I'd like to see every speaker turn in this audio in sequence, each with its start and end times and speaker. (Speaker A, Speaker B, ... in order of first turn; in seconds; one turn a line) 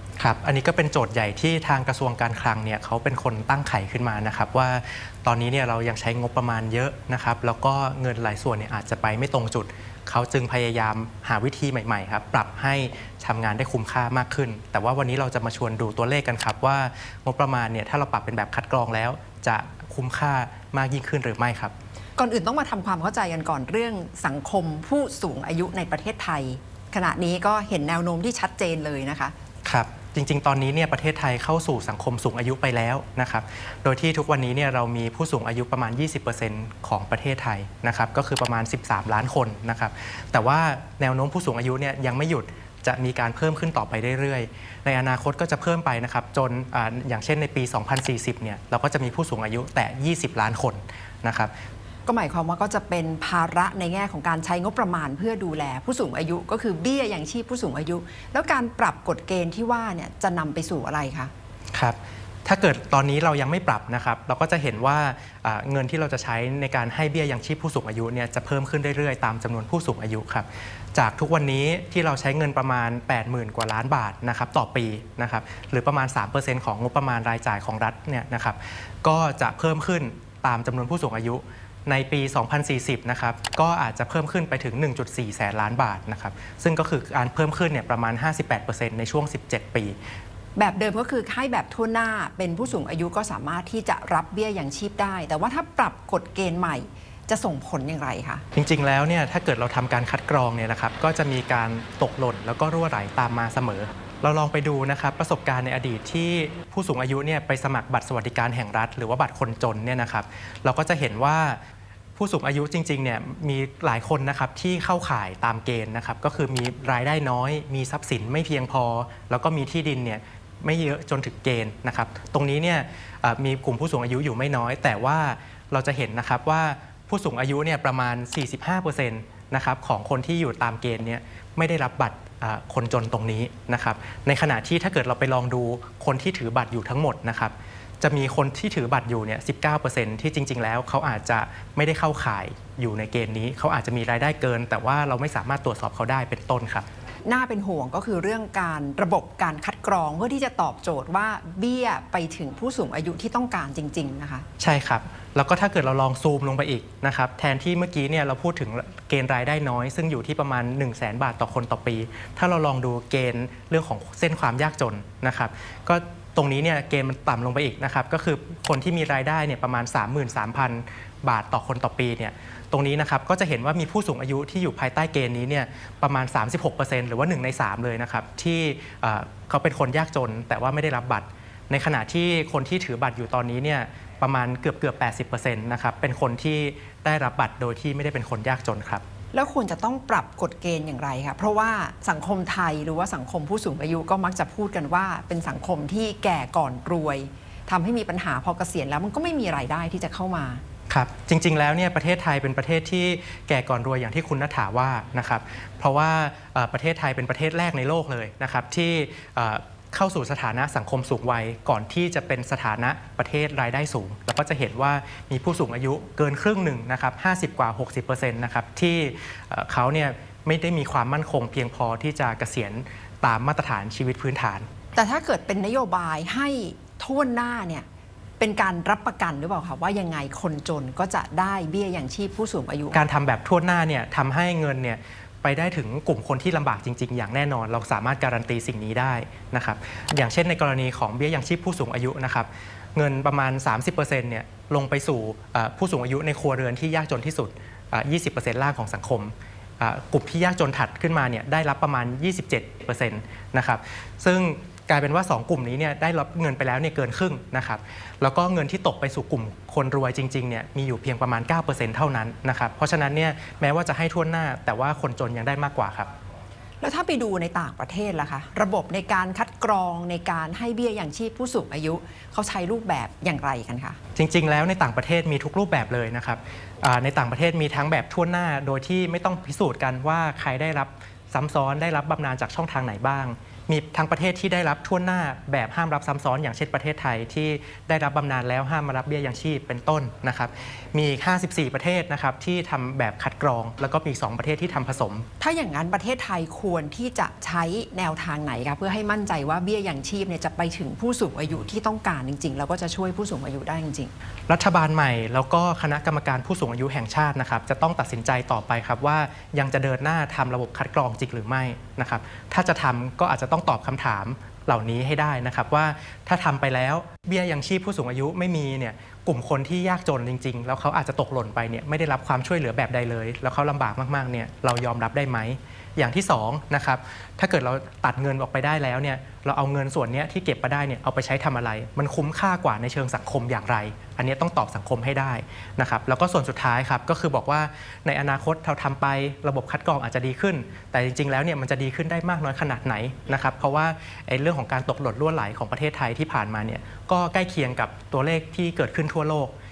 Speaker A: 0.2-21.7
Speaker B: 22.2-29.3
Speaker A: 29.6-51.5
Speaker B: 52.1-61.3
Speaker A: 61.7-90.0
Speaker B: 90.6-98.4
Speaker A: 98.5-111.6
Speaker A: 112.2-146.9
Speaker B: 147.3-154.5
Speaker A: 154.6-189.0
Speaker B: 189.3-200.6
Speaker A: 200.9-224.7
Speaker B: 224.9-227.9
Speaker B: 228.4-233.0
Speaker A: 232.9-266.1
Speaker B: 266.8-274.0
Speaker A: 274.2-295.3
Speaker B: 295.4-304.1
Speaker A: 304.5-349.5